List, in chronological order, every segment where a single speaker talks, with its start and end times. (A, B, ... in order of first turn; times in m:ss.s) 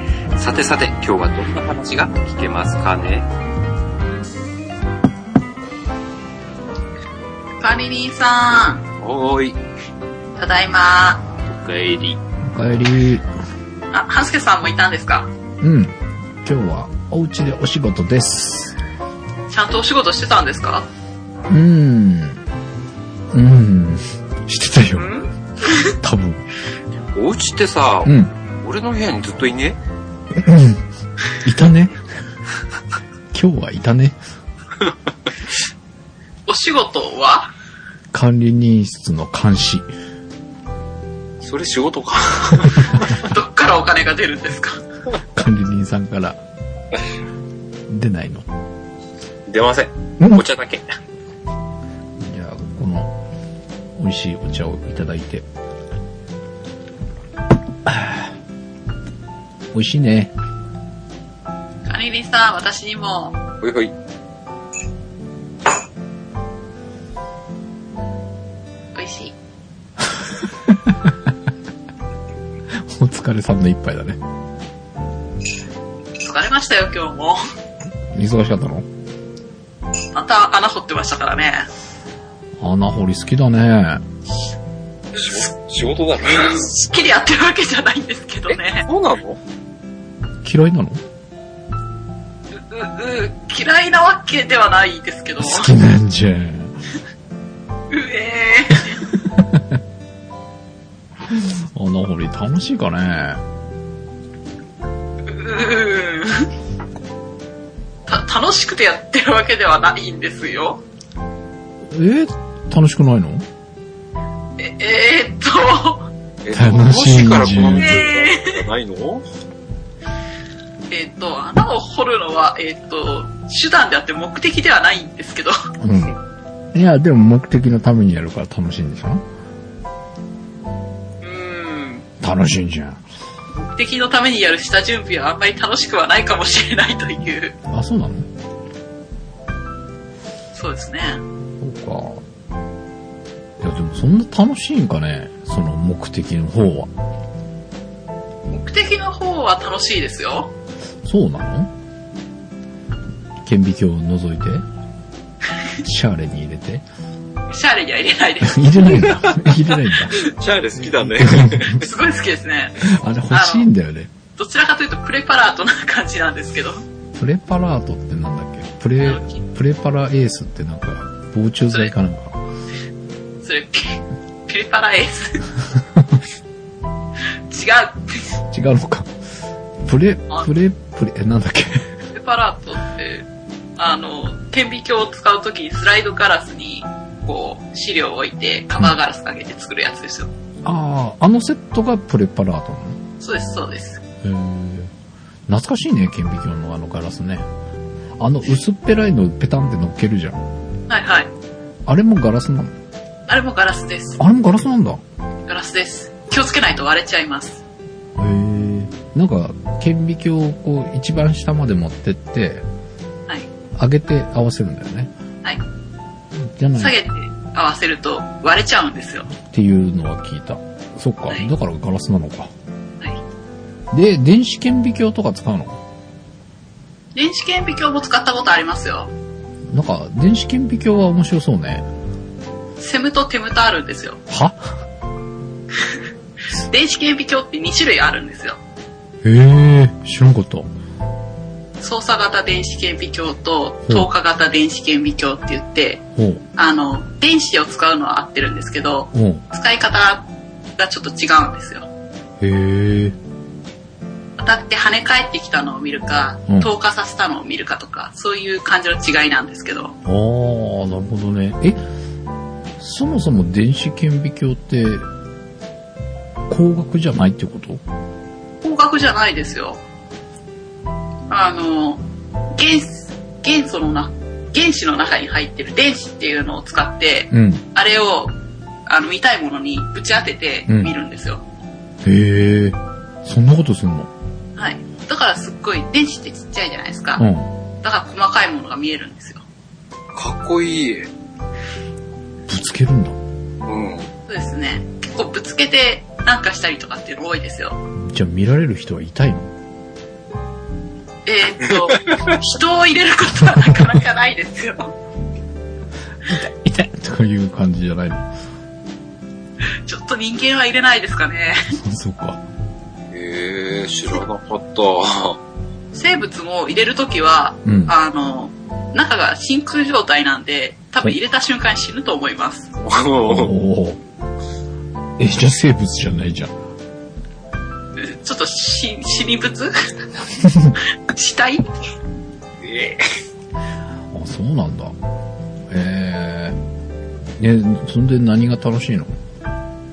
0:00.4-0:03.3 A
0:07.6-0:08.8 B
0:09.0-0:09.6 A
0:10.4-0:11.2 B
0:11.5-0:12.2 A
0:12.4-0:13.3 C
0:13.9-0:15.3 B
0:15.6-0:18.8 C
0:19.5-0:20.9 B
0:21.5-0:22.4 C
0:23.3-0:25.1 C
0:24.9-0:25.9 B
0:25.8-0:26.4 C
0:27.1-0:29.8 A
0:28.0-0:28.3 C
0:30.3-0:30.8 C
0:31.4-0:32.0 C
0:33.3-0:34.2 C
0:36.5-0:37.5 B
0:38.1-0:39.9 C
0:41.4-0:43.2 A
0:43.0-0:44.8 B
0:45.3-0:46.4 C
0:47.9-0:48.5 C
0:49.5-0:50.8 A
0:52.2-0:53.1 C
0:54.0-0:55.4 C
0:57.8-0:58.3 C
0:59.7-1:00.3 C
1:01.9-1:03.4 B
1:03.6-1:03.9 A
1:08.9-1:09.4 B
1:10.7-1:11.0 C
1:12.7-1:14.2 C
1:16.2-1:17.4 B
1:18.1-1:18.9 C
1:20.1-1:21.7 B
1:22.6-1:24.0 C
1:25.1-1:25.5 B
1:25.1-1:26.7 A
1:26.4-1:28.8 B
1:28.5-1:29.4 A
1:30.4-1:31.0 C
1:32.5-1:35.7 B
1:35.4-1:36.7 C
1:37.9-1:39.0 B
1:39.2-1:39.8 C
1:41.3-1:43.4 C
1:45.2-1:46.5 B
1:48.1-1:50.8 B
1:51.9-1:53.4 C
1:54.6-1:56.1 B
1:56.4-1:59.2 A
1:56.5-1:58.0 C
1:57.8-1:58.6 B
2:00.9-2:05.6 B
2:05.8-2:06.2 C
2:06.7-2:09.2 C
2:11.2-2:12.0 B
2:12.2-2:13.0 C
2:13.5-2:17.5 B
2:17.7-2:18.3 C
2:20.5-2:21.2 B
2:21.6-2:22.2 C
2:23.6-2:26.9 C
2:28.5-2:30.5 B
2:31.0-2:31.7 C
2:33.4-2:34.6 C
2:35.8-2:36.8 C
2:37.5-2:39.2 B
2:38.4-2:40.2 C
2:40.1-2:41.8 A
2:41.0-2:41.8 C
2:41.7-2:43.7 B
2:42.8-2:44.1 C
2:44.4-2:46.8 B
2:47.2-2:52.4 C
2:49.0-2:49.4 B
2:53.4-2:55.5 B
2:57.5-2:58.4 B
2:58.5-2:59.1 C
2:59.8-3:01.9 C
3:02.1-3:03.3 B
3:03.8-3:10.3 B
3:10.6-3:13.0 C
3:13.2-3:14.0 B
3:14.2-3:14.9 C
3:15.5-3:17.5 C
3:18.2-3:20.4 C
3:20.9-3:21.3 B
3:21.8-3:22.7 C
3:23.3-3:24.2 B
3:24.2-3:25.0 C
3:25.5-3:27.6 B
3:28.2-3:32.6 C
3:33.8-3:35.1 C
3:36.4-3:37.0 C
3:36.8-3:39.3 B
3:39.4-3:42.5 C
3:43.9-3:45.8 C
3:47.1-3:49.1 B
3:49.7-3:51.9 C
3:52.8-3:54.2 B
3:54.3-3:54.7 C
3:56.6-3:58.6 B
3:59.2-4:00.7 C
4:01.8-4:06.0 B
4:06.2-4:06.4 C
4:06.6-4:10.3 B
4:09.1-4:09.4 C
4:10.8-4:11.9 B
4:12.4-4:13.2 C
4:14.4-4:20.0 B
4:20.0-4:21.8 C
4:22.8-4:25.0 C
4:26.5-4:27.8 C
4:28.6-4:29.8 B
4:31.3-4:38.4 B
4:37.3-4:37.6 C
4:38.9-4:41.4 B
4:42.0-4:44.1 C
4:44.6-4:47.2 B
4:47.2-4:47.5 C
4:47.8-4:49.4 B
4:50.1-4:51.1 A
4:52.5-4:53.2 C
4:53.6-4:54.1 A
4:54.3-4:57.8 B
4:58.0-4:59.5 C
5:01.2-5:04.9 B
5:06.2-5:08.2 C
5:09.8-5:11.6 B
5:11.8-5:12.4 C
5:13.1-5:15.4 A
5:15.9-5:22.7 B
5:17.6-5:17.9 C
5:22.8-5:23.5 A
5:23.2-5:24.0 C
5:25.2-5:26.5 C
5:27.9-5:29.8 B
5:31.1-5:31.7 B
5:32.6-5:33.0 A
5:34.1-5:34.9 C
5:35.7-5:36.6 C
5:37.4-5:39.2 C